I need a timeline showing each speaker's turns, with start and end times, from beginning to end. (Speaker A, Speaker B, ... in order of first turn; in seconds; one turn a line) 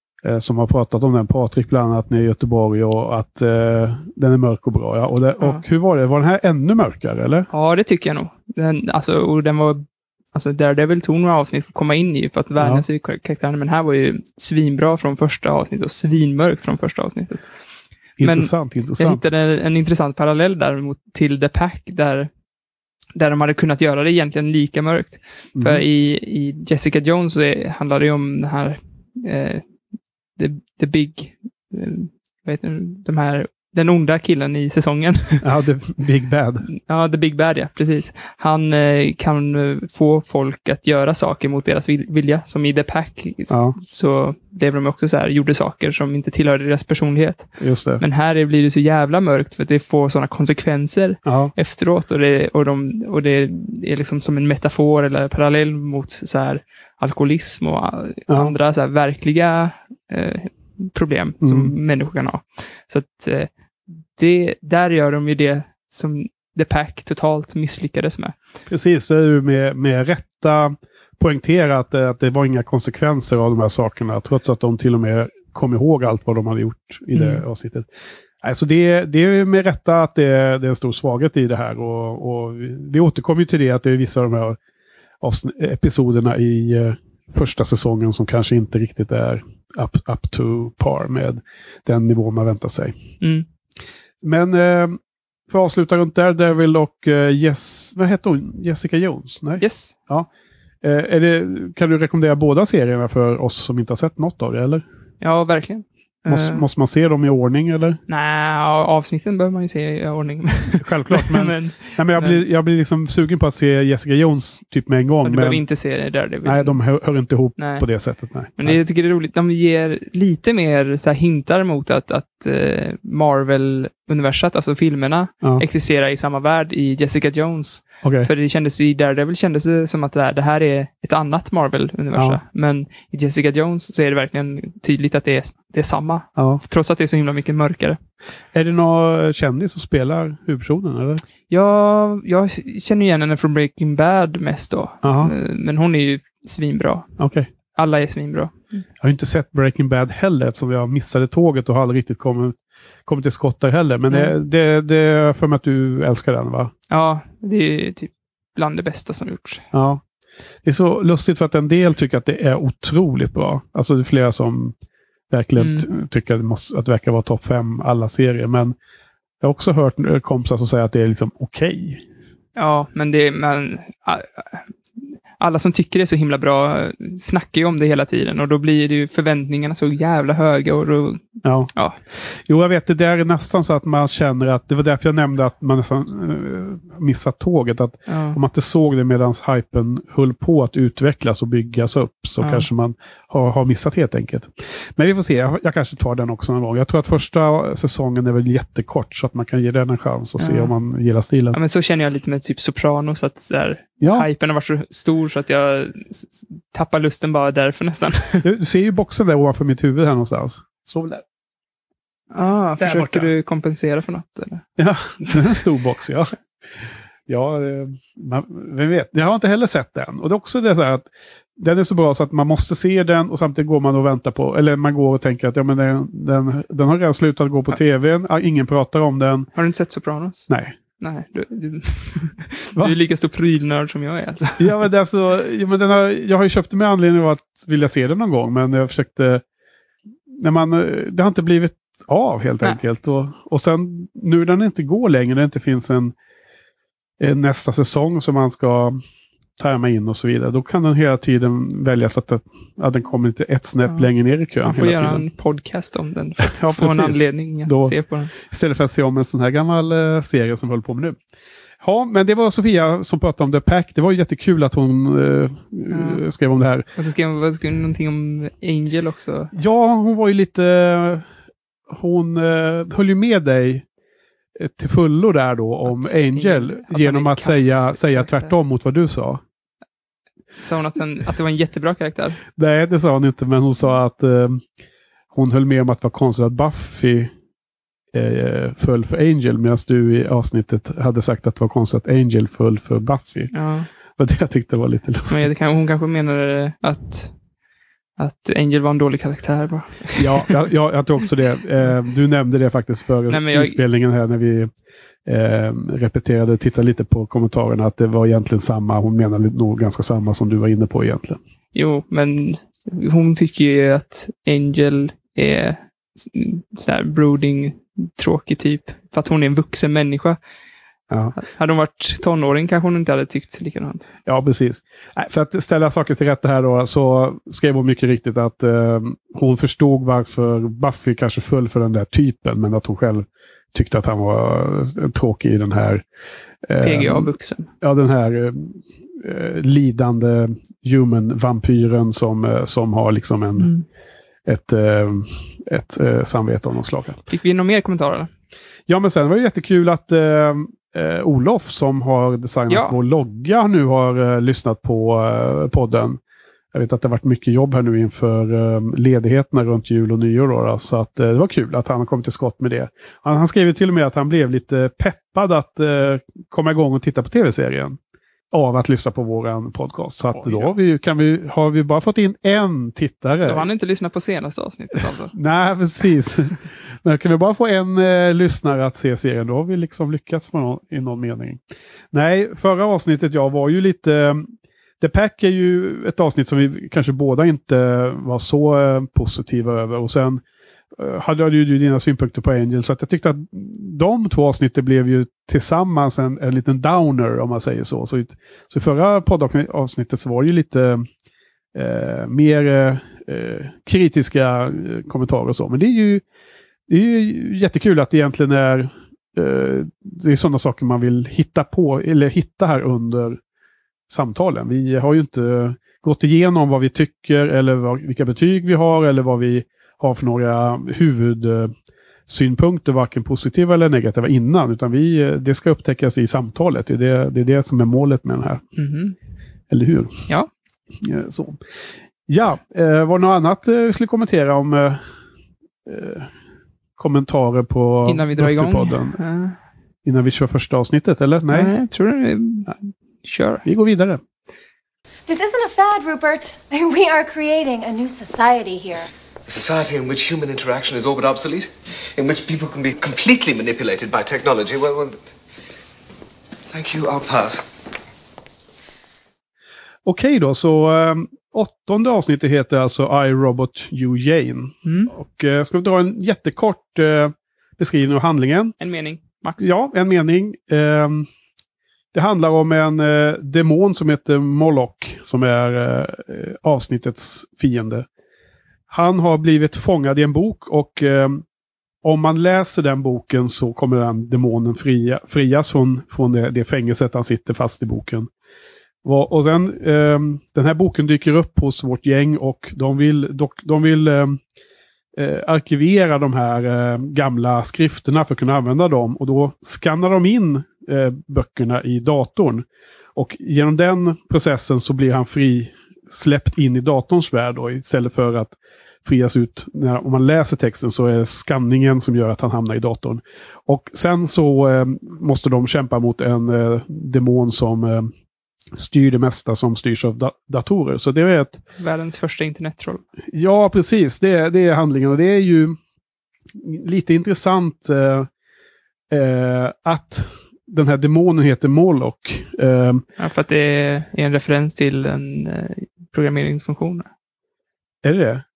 Speaker A: 0.2-7.5
Speaker B: 7.5-17.5
Speaker A: 12.6-12.8
Speaker A: 18.2-19.2
Speaker B: 18.2-22.3
Speaker B: 23.1-29.6
Speaker A: 25.6-25.8
Speaker B: 30.4-35.5
Speaker A: 35.4-36.7
Speaker B: 36.7-63.5
Speaker A: 43.5-43.8
Speaker A: 47.6-48.0
Speaker A: 51.2-51.5
Speaker A: 61.4-61.7
Speaker B: 64.1-68.3
Speaker A: 68.7-77.9
Speaker B: 77.1-77.4
Speaker A: 78.4-84.6
Speaker A: 85.2-93.0
Speaker B: 93.2-93.5
Speaker A: 94.2-95.0
Speaker A: 95.5-100.3
Speaker B: 99.6-100.0
Speaker A: 100.8-104.8
Speaker B: 105.2-106.6
Speaker A: 106.3-108.0
Speaker B: 108.1-112.4
Speaker A: 110.8-115.6
Speaker B: 115.2-116.8
Speaker A: 116.4-118.8
Speaker B: 117.6-117.8
Speaker B: 118.6-138.0
Speaker A: 128.0-128.3
Speaker A: 132.1-132.4
Speaker A: 136.3-136.6
Speaker A: 138.5-141.2
Speaker B: 141.5-147.2
Speaker A: 145.0-145.3
Speaker A: 147.2-147.5
Speaker B: 147.7-148.8
Speaker A: 149.0-152.5
Speaker A: 153.1-156.7
Speaker B: 156.9-159.6
Speaker A: 159.7-160.0
Speaker A: 160.6-164.7
Speaker A: 165.3-168.7
Speaker B: 165.6-165.9
Speaker A: 169.4-172.0
Speaker B: 172.6-182.0
Speaker A: 181.4-201.6
Speaker B: 188.1-188.4
Speaker B: 192.4-192.7
Speaker B: 200.4-200.7
Speaker B: 201.5-208.5
Speaker A: 204.0-204.2
Speaker A: 208.4-211.2
Speaker B: 212.3-214.7
Speaker A: 212.8-213.3
Speaker A: 214.8-216.3
Speaker B: 215.2-215.5
Speaker A: 217.3-229.5
Speaker B: 229.5-234.7
Speaker A: 230.5-230.7
Speaker A: 234.6-239.4
Speaker A: 240.3-246.1
Speaker A: 247.2-249.0
Speaker A: 249.6-255.2
Speaker B: 254.6-258.3
Speaker A: 256.4-261.2
Speaker A: 261.8-266.9
Speaker B: 265.9-266.2
Speaker B: 266.9-269.5
Speaker A: 269.5-271.3
Speaker A: 271.9-273.8
Speaker A: 274.6-279.4
Speaker B: 275.8-278.5
Speaker B: 280.6-282.4
Speaker A: 282.6-284.6
Speaker A: 285.3-287.3
Speaker A: 288.1-293.5
Speaker B: 293.5-293.9
Speaker A: 294.2-295.5
Speaker B: 295.3-297.4
Speaker B: 298.2-300.6
Speaker A: 300.2-304.7
Speaker B: 303.3-303.8
Speaker A: 305.2-311.4
Speaker B: 311.7-320.4
Speaker A: 321.1-321.4
Speaker B: 321.4-324.1
Speaker A: 324.2-336.0
Speaker A: 336.6-343.7
Speaker B: 336.8-337.7
Speaker B: 343.6-343.9
Speaker A: 344.4-347.2
Speaker B: 347.3-348.3
Speaker A: 348.9-356.2
Speaker B: 352.7-352.9
Speaker A: 356.7-368.0
Speaker A: 368.5-373.7
Speaker B: 370.3-370.7
Speaker B: 373.4-375.3
Speaker A: 375.3-381.6
Speaker A: 382.1-384.5
Speaker A: 385.0-390.4
Speaker A: 391.0-401.1
Speaker A: 401.7-406.2
Speaker A: 406.9-413.4
Speaker A: 414.1-421.7
Speaker A: 422.3-428.6
Speaker B: 428.8-429.1
Speaker A: 429.7-430.2
Speaker A: 431.0-431.6
Speaker A: 432.3-435.0
Speaker A: 435.9-436.3
Speaker A: 437.0-439.2
Speaker B: 438.1-439.6
Speaker A: 440.0-441.7
Speaker B: 441.5-443.6
Speaker A: 443.6-444.2
Speaker C: 445.3-449.1
Speaker D: 449.5-455.2
Speaker D: 456.7-457.6
Speaker A: 460.0-468.7
Speaker B: 464.8-465.1
Speaker B: 468.8-469.7
Speaker A: 469.6-471.3
Speaker A: 472.1-478.1
Speaker A: 478.9-481.4
Speaker A: 482.0-488.3
Speaker A: 489.0-494.4
Speaker A: 495.1-502.6
Speaker A: 503.1-518.1
Speaker A: 518.7-521.6
Speaker B: 521.8-523.0
Speaker A: 523.3-525.8
Speaker A: 526.6-528.3
Speaker A: 529.1-533.0
Speaker B: 533.2-537.1
Speaker A: 538.0-538.4